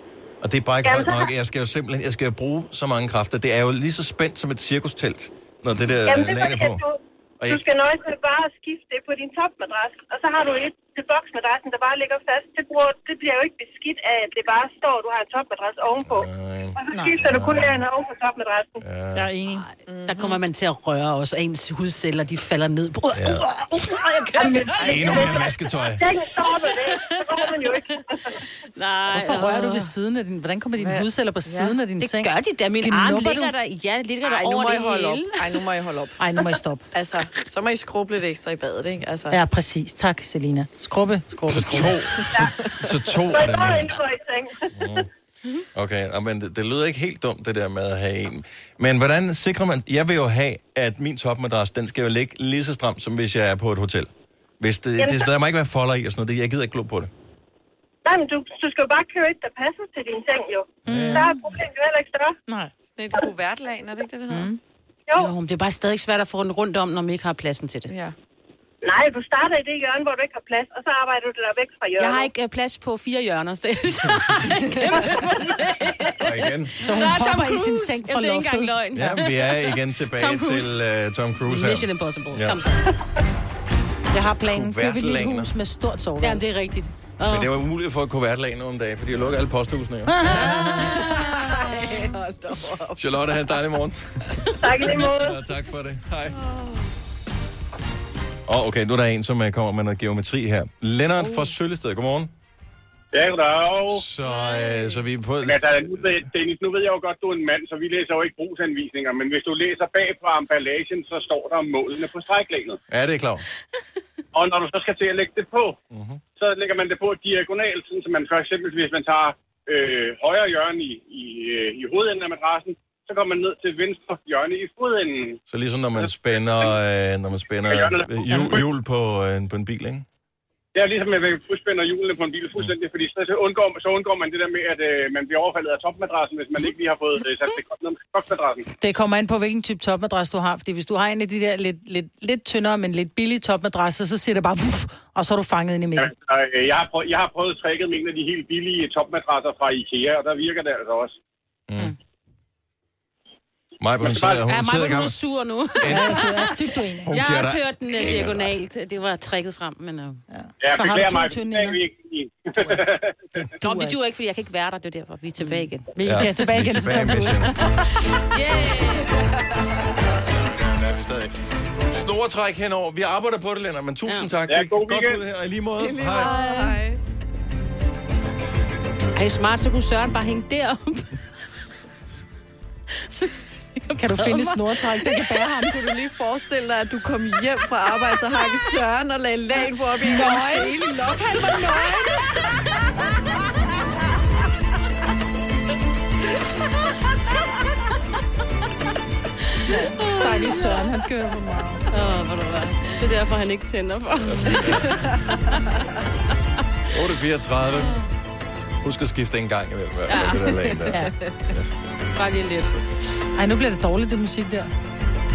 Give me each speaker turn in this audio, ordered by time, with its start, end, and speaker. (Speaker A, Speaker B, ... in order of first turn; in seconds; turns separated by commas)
Speaker A: 0.4-6.8, Speaker B: 0.8-1.3, Speaker B: 6.1-18.8, Speaker A: 16.1-17.9, Speaker A: 18.8-19.3, Speaker C: 19.1-19.6, Speaker D: 19.5-25.0, Speaker E: 19.9-20.4, Speaker A: 23.1-23.4, Speaker B: 24.3-28.4, Speaker E: 24.8-25.1, Speaker A: 24.8-26.1, Speaker D: 26.9-28.0, Speaker D: 28.7-29.9, Speaker C: 29.1-32.3, Speaker E: 30.8-31.8, Speaker D: 32.0-35.7, Speaker C: 32.8-33.5, Speaker E: 34.2-36.2, Speaker C: 36.2-36.8, Speaker E: 36.9-39.4, Speaker C: 39.3-41.9, Speaker A: 41.5-44.0, Speaker E: 42.1-43.0, Speaker B: 43.3-45.0, Speaker A: 44.7-45.1, Speaker A: 45.7-57.1, Speaker B: 55.0-55.3, Speaker B: 58.0-62.4, Speaker A: 60.8-61.3, Speaker C: 60.9-61.3, Speaker E: 62.9-64.6, Speaker C: 64.3-64.5, Speaker D: 65.2-67.9, Speaker E: 67.9-68.1, Speaker B: 68.8-72.3, Speaker D: 72.0-80.8, Speaker A: 76.2-76.7, Speaker C: 76.8-78.7, Speaker A: 78.9-82.6, Speaker D: 81.4-82.9, Speaker C: 84.1-86.5, Speaker A: 84.4-85.5, Speaker D: 86.2-87.5, Speaker A: 87.2-91.2, Speaker C: 90.1-90.9, Speaker E: 90.7-93.4, Speaker A: 92.9-96.4, Speaker B: 94.6-95.4, Speaker E: 96.3-96.8, Speaker A: 98.5-102.3, Speaker F: 103.1-104.0, Speaker A: 103.9-106.2, Speaker F: 105.4-112.8, Speaker A: 112.9-113.4, Speaker F: 114.3-115.8, Speaker A: 115.9-116.2, Speaker F: 116.4-125.4, Speaker A: 125.5-130.1, Speaker F: 127.7-128.6, Speaker F: 130.7-138.7, Speaker C: 138.8-146.1, Speaker F: 146.0-151.1, Speaker A: 151.7-151.9, Speaker A: 153.8-155.2, Speaker F: 154.0-154.4, Speaker D: 154.4-156.6, Speaker A: 155.7-156.3, Speaker C: 155.9-157.1, Speaker A: 157.1-158.6, Speaker D: 157.1-160.2, Speaker C: 160.3-161.8, Speaker F: 160.6-163.2, Speaker C: 163.4-163.9, Speaker D: 163.6-169.2, Speaker C: 165.4-167.6, Speaker A: 166.0-167.7, Speaker E: 169.0-170.0, Speaker A: 170.6-171.3, Speaker A: 171.9-176.3, Speaker F: 174.5-175.2, Speaker E: 175.8-177.0, Speaker C: 176.2-176.8, Speaker D: 179.2-181.2, Speaker D: 183.1-185.2, Speaker C: 183.9-185.9, Speaker E: 185.8-191.9, Speaker C: 190.0-192.1, Speaker C: 199.7-201.8, Speaker D: 199.9-200.9, Speaker D: 201.9-205.1, Speaker A: 204.2-205.1, Speaker A: 206.9-208.1, Speaker A: 208.8-211.7, Speaker D: 210.1-210.5, Speaker E: 210.5-211.4, Speaker D: 212.2-212.7, Speaker C: 213.4-214.7